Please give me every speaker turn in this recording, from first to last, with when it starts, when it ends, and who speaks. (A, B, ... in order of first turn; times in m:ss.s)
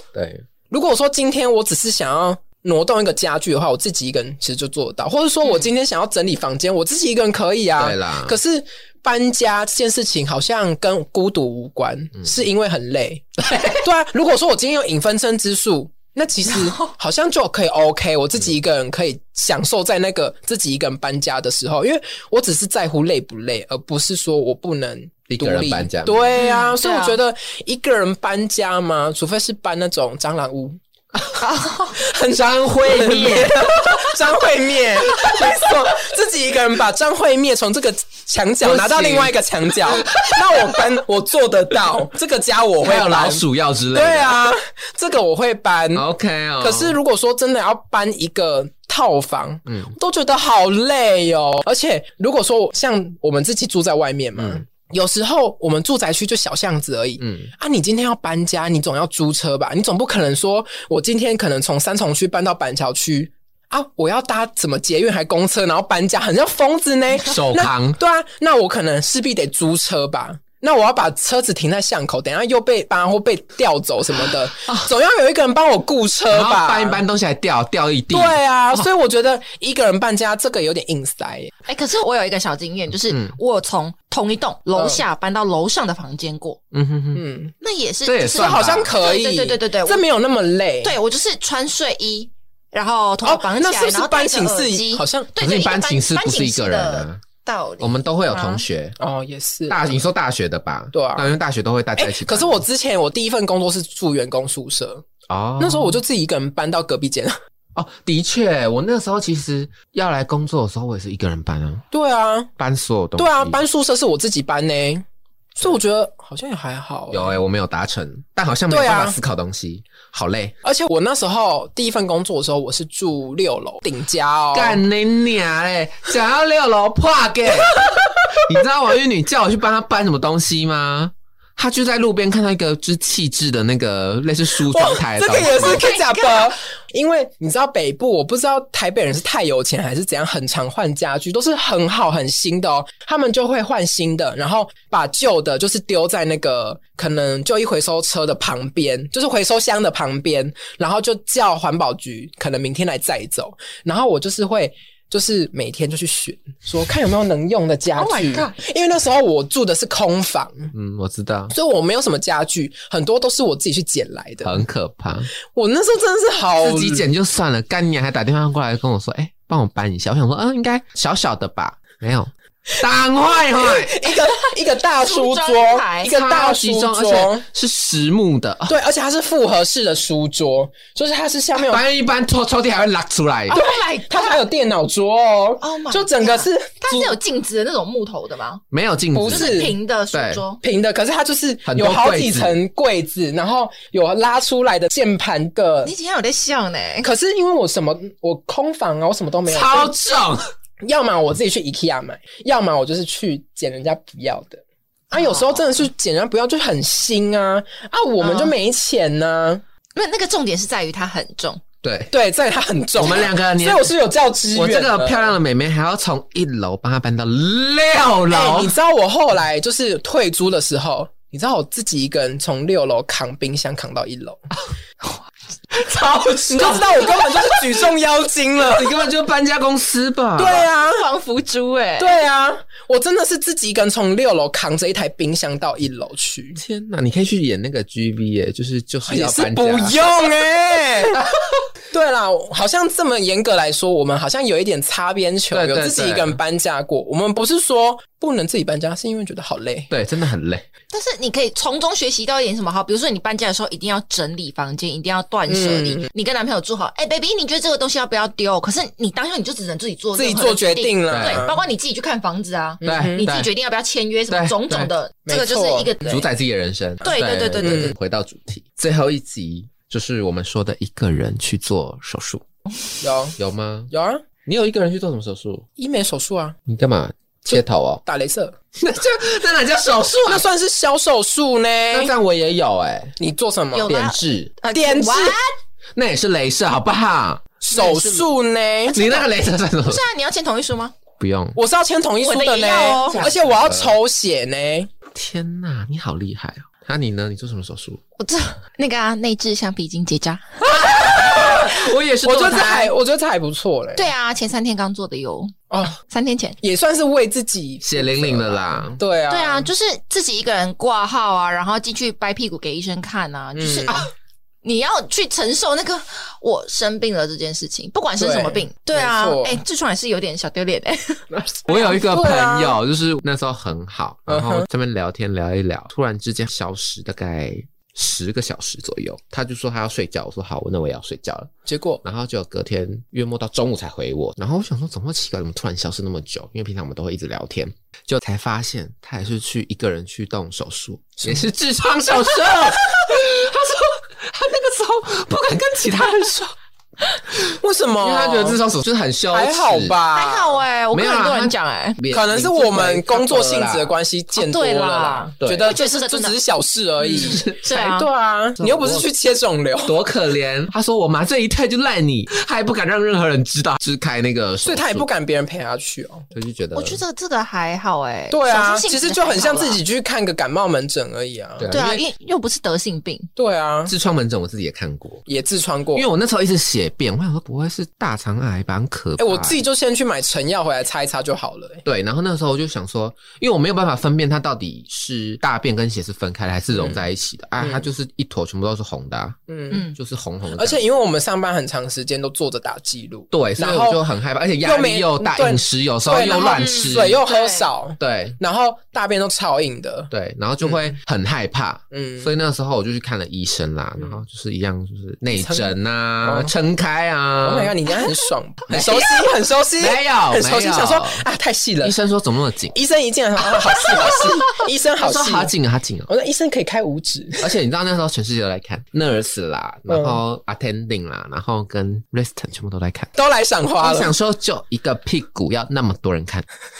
0:00.1-0:00.4 A
0:00.7-0:30.8 B
0:07.8-0:08.4 A
0:13.4-0:13.8 A
0:25.3-0:26.4 A
0:26.4-0:27.2 C
0:31.4-0:32.0 C
0:31.9-0:46.1 B
0:32.3-0:33.9 A
0:38.6-0:40.9 A
0:42.8-0:44.4 A
0:45.9-0:47.0 A
0:46.6-1:17.0 B
0:49.7-0:49.9 A
0:54.4-0:54.6 A
0:57.2-0:57.5 A
1:07.2-1:08.0 A
1:16.3-1:18.9 A
1:18.1-1:21.5 B
1:21.7-1:26.6 C
1:23.1-1:23.4 A
1:24.8-1:25.0 B
1:26.7-1:27.2 A
1:27.2-1:27.5 B
1:27.6-1:30.0 C
1:28.1-1:28.9 A
1:28.3-1:31.0 B
1:30.8-1:38.6 C
1:33.2-1:35.3 B
1:35.4-1:37.2 A
1:37.8-1:39.0 A
1:39.0-1:39.8 B
1:39.7-1:42.6 A
1:40.9-1:41.4 B
1:42.0-1:45.1 B
1:45.3-1:46.0 A
1:45.6-1:47.4 B
1:47.8-1:51.8 A
1:51.9-1:52.5 B
1:52.6-1:53.6 A
1:53.2-1:55.0 B
1:55.6-1:57.4 B
1:57.1-2:00.6 A
1:58.7-1:59.2 B
2:00.6-2:04.8 B
2:04.5-2:15.9 A
2:07.8-2:08.4 B
2:14.6-2:40.7 B
2:15.4-2:16.5 C
2:38.0-2:38.5 C
2:40.7-2:41.5 A
2:41.5-2:44.6 B
2:44.4-2:45.3 A
2:45.5-2:47.1 B
2:46.6-2:54.1 A
2:53.5-2:57.4 B
2:55.0-2:56.1 C
2:56.1-2:58.8 A
2:58.7-3:01.8 B
3:01.6-3:03.6 A
3:03.5-3:04.4 C
3:03.5-3:07.2 B
3:05.6-3:08.6 C
3:08.7-3:10.4 A
3:09.1-3:09.8 B
3:09.3-3:10.6 C
3:10.6-3:15.9 B
3:11.7-3:12.6 A
3:15.8-3:17.1 C
3:17.0-3:19.9 B
3:19.5-3:20.4 A
3:20.8-3:29.6 B
3:25.1-3:25.9 C
3:28.2-3:28.6 C
3:30.0-3:31.6 C
3:31.8-3:32.1 A
3:32.1-3:35.4 B
3:33.0-3:33.9 A
3:34.6-3:38.8 A
3:38.3-3:44.5 B
3:45.7-3:47.9 A
3:46.5-3:49.0 B
3:48.6-3:50.7 A
3:50.4-3:51.1 B
3:50.6-3:52.2 C
3:52.0-3:56.6 B
3:56.6-4:00.1 A
3:59.1-4:01.2 B
4:01.9-4:09.9 B
4:05.5-4:06.4 A
4:09.9-4:10.7 A
4:10.9-4:26.3 C
4:15.5-4:16.1 B
4:20.2-4:21.6 B
4:21.1-4:21.4 A
4:22.8-4:23.3 B
4:22.8-4:23.5 A
4:24.3-4:24.9 A
4:25.3-4:26.0 B
4:26.0-4:32.4 A
4:27.0-4:27.9 C
4:27.6-4:27.9 B
4:33.0-4:33.4 B
4:33.4-4:33.9 A
4:33.9-4:34.2 B
4:34.5-4:35.7 A
4:35.8-4:36.6 B
4:36.7-4:38.0 A
4:37.5-4:38.6 B
4:38.8-4:40.4 A
4:40.3-4:42.1 B
4:41.9-4:43.2 A
4:43.2-4:43.9 B
4:43.7-4:45.5 C
4:43.9-4:44.5 A
4:44.7-4:45.4 B
4:46.0-4:47.6 A
4:47.6-4:49.0 B
4:47.7-4:48.3 C
4:48.9-4:49.3 C
4:48.9-4:50.0 A
4:49.8-4:50.9 C
4:51.2-4:51.6 A
4:51.6-4:54.9 B
4:52.2-4:53.3 C
4:53.1-4:54.0 A
4:55.1-4:58.0 A
4:58.2-5:00.7 C
5:00.6-5:02.9 A
5:00.8-5:04.1 B
5:02.5-5:02.9 C
5:04.0-5:06.6 C
5:05.7-5:06.0 B
5:06.6-5:09.7 B
5:07.8-5:09.0 A
5:09.3-5:14.0 C
5:13.6-5:14.0 B
5:14.6-5:21.9 C
5:18.2-5:19.6 B
5:21.6-5:31.5 A
5:21.7-5:22.8 B
5:24.3-5:24.7 B
5:31.7-5:32.0 B
5:32.0-5:46.6 A
5:41.2-5:41.5 B
5:47.4-5:50.0 A
5:47.4-5:48.6 B
5:49.3-5:50.6 B
5:50.2-5:52.0 C
5:50.9-5:53.9 A
5:52.1-6:00.0 B
5:54.3-5:56.4 C
5:55.4-5:55.7 A
5:57.0-5:58.1 C
5:57.0-5:57.6 A
5:58.6-5:59.1 A
5:59.9-6:05.1 A
6:04.6-6:06.3 B
6:06.3-6:07.0 A
6:06.7-6:09.8 C
6:08.3-6:11.8 B
6:11.6-6:12.0 A
6:11.7-6:13.3 C
6:13.4-6:13.9 B
6:13.9-6:15.2 A
6:15.3-6:16.1 B
6:16.0-6:19.6 A
6:19.2-6:21.8 B
6:21.8-6:29.4 A
6:26.8-6:27.0 B
6:27.6-6:27.9 B
6:29.5-6:29.9 B
6:29.9-6:30.8 A
6:30.5-6:34.0 B
6:33.3-6:37.2 A
6:34.6-6:40.1 B
6:36.1-6:37.7 C
6:38.0-6:38.4 A
6:40.1-6:47.7 A
6:40.6-6:40.9 B
6:41.9-6:42.3 B
6:45.3-6:46.5 B
6:47.4-6:52.0 B
6:48.7-6:49.2 A
6:49.8-6:51.3 A
6:51.8-6:52.7 A
6:52.7-6:55.5 B
6:55.0-6:56.1 A
6:56.1-6:57.5 B
6:57.4-7:03.1 A
6:59.9-7:00.2 B
7:03.2-7:04.2 B
7:03.8-7:06.5 A